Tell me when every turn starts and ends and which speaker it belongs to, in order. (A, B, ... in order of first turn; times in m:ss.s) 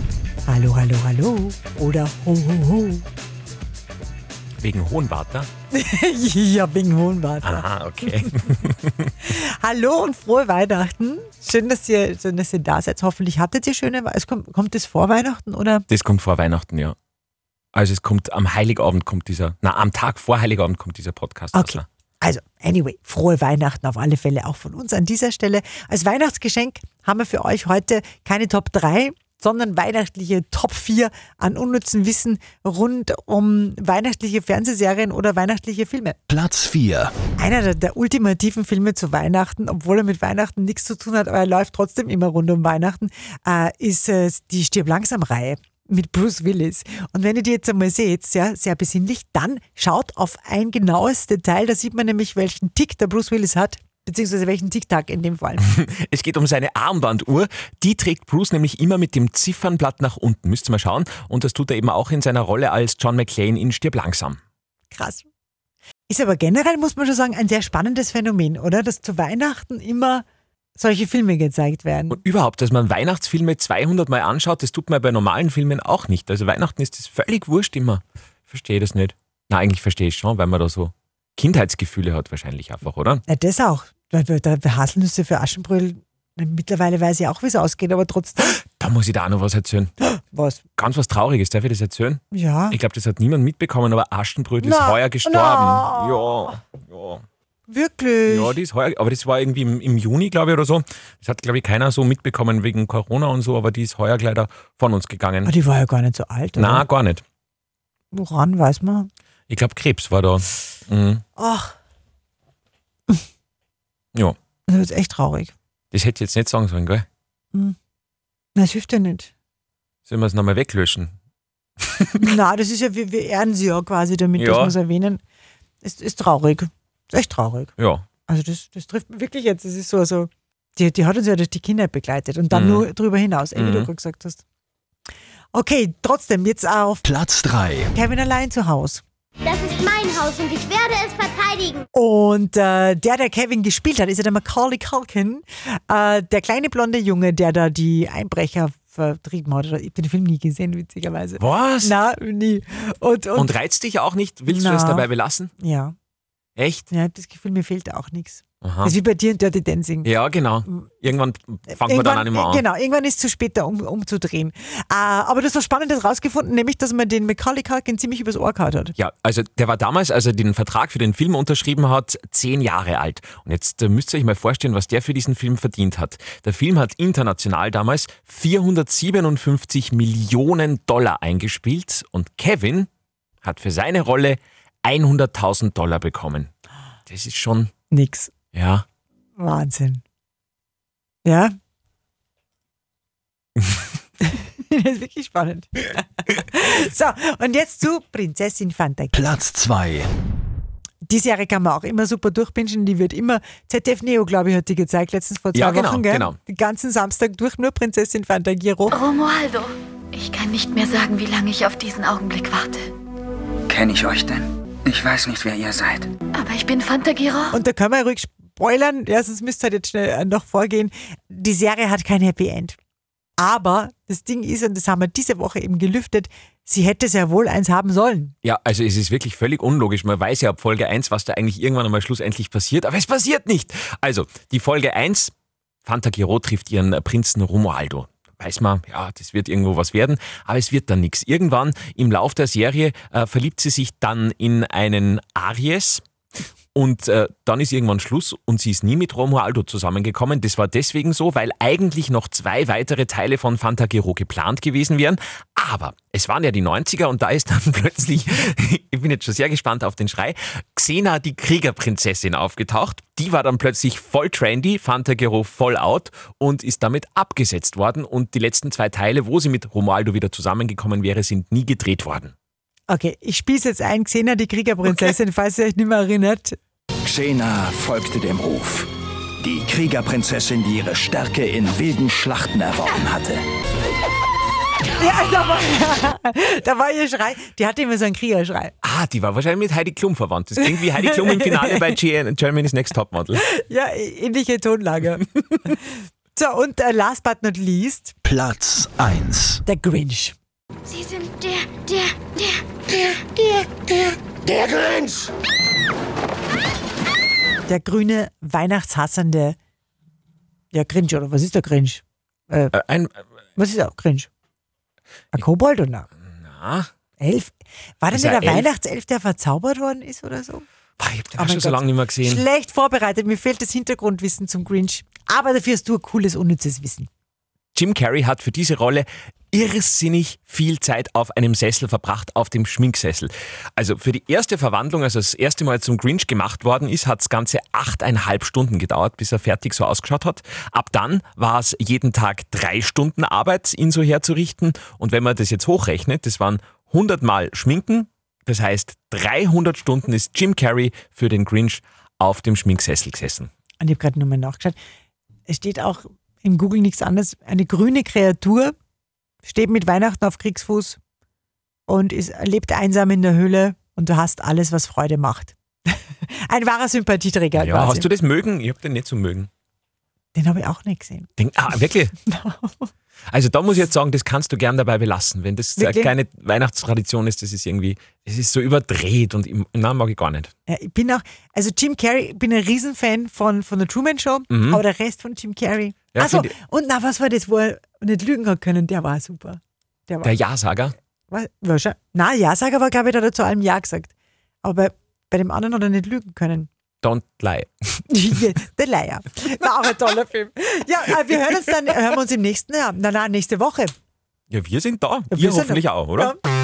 0:00.5-0:03.0 A
0:04.6-0:05.5 B
0:05.7-0:07.6 A
0:07.4-0:09.2 B
0:09.2-0:15.9 A
0:15.9-0:17.0 B
0:17.7-0:21.8 B
0:21.5-0:36.2 A
0:36.3-0:37.1 C
0:37.4-0:55.6 A
0:55.6-1:04.4 B
1:04.9-1:05.3 A
1:06.1-1:10.2 A
1:10.8-1:12.2 A
1:12.1-1:23.2 B
1:23.3-1:28.6 A
1:28.4-1:29.9 B
1:30.2-1:30.6 A
1:30.8-1:37.2 B
1:32.3-1:32.8 A
1:34.6-1:36.3 A
1:37.7-1:38.6 A
1:38.3-1:45.5 B
1:45.4-1:46.8 A
1:46.6-1:47.2 B
1:48.1-1:49.1 A
1:49.5-1:51.2 B
1:51.4-1:51.8 A
1:54.7-1:55.5 A
1:55.9-1:57.0 B
1:58.6-1:59.3 A
2:00.1-2:01.1 B
2:01.8-2:02.3 B
2:02.2-2:05.2 A
2:04.4-2:04.8 B
2:05.8-2:07.7 A
2:07.8-2:08.0 B
2:08.3-2:14.4 A
2:12.5-2:12.9 B
2:13.6-2:13.9 B
2:15.5-2:17.0 A
2:17.0-2:17.9 C
2:17.9-2:19.0 A
2:19.4-2:21.8 D
2:21.9-2:33.6 A
2:31.4-2:31.9 B
2:33.4-2:35.5 B
2:34.5-2:35.1 A
2:35.6-2:35.9 A
2:36.6-2:36.9 B
2:36.9-2:40.1 A
2:38.6-2:39.0 B
2:40.0-2:42.6 B
2:40.7-2:40.9 A
2:41.8-2:49.0 A
2:49.0-3:02.9 B
3:03.4-3:06.5 B
3:07.1-3:07.7 B
3:07.9-3:08.3 A
3:08.5-3:08.8 B
3:09.4-3:10.0 A
3:11.2-3:11.5 A
3:14.2-3:19.2 A
3:19.1-3:20.1 C
3:21.0-3:29.0 A
3:25.6-3:26.4 B
3:28.9-3:32.9 E
3:33.7-3:36.1 F
3:36.4-3:37.5 E
3:37.5-3:42.8 A
3:43.4-3:48.4 A
3:48.4-3:55.3 B
3:55.8-4:06.0 B
4:06.8-4:32.3 B
4:32.9-4:36.6 A
4:37.0-4:38.9 G
4:39.4-4:43.4 G
4:45.0-4:48.7 A
4:48.8-4:53.4 B
4:50.6-4:51.9 A
4:53.4-4:55.8 A
4:56.4-4:58.2 A
4:58.2-4:59.6 C
4:59.7-5:00.4 A
5:00.9-5:01.6 E
5:07.7-5:09.6 A
5:10.7-5:12.8 A
5:12.7-5:13.2 B
5:13.6-5:14.3 A
5:15.3-5:16.1 A
5:16.4-5:16.9 B
5:17.2-5:20.7 A
5:18.1-5:18.7 B
5:21.0-5:22.4 B
5:21.4-5:27.1 A
5:27.8-5:53.5 B
5:53.8-5:54.8 A
5:55.5-5:58.7 A
5:59.4-6:01.0 A
6:01.9-6:08.1 A
6:07.6-6:09.5 B
6:10.4-6:11.3 A
6:11.4-6:12.2 B
6:12.2-6:12.9 A
6:13.3-6:20.5 B
6:15.8-6:16.1 A
6:20.7-6:30.3 A
6:24.5-6:24.8 B
6:26.2-6:26.5 B
6:30.2-6:30.9 B
6:31.3-6:34.1 A
6:34.6-6:36.7 A
6:37.0-6:37.7 B
6:38.1-6:43.9 A
6:44.5-6:46.3 B
6:45.3-6:46.4 A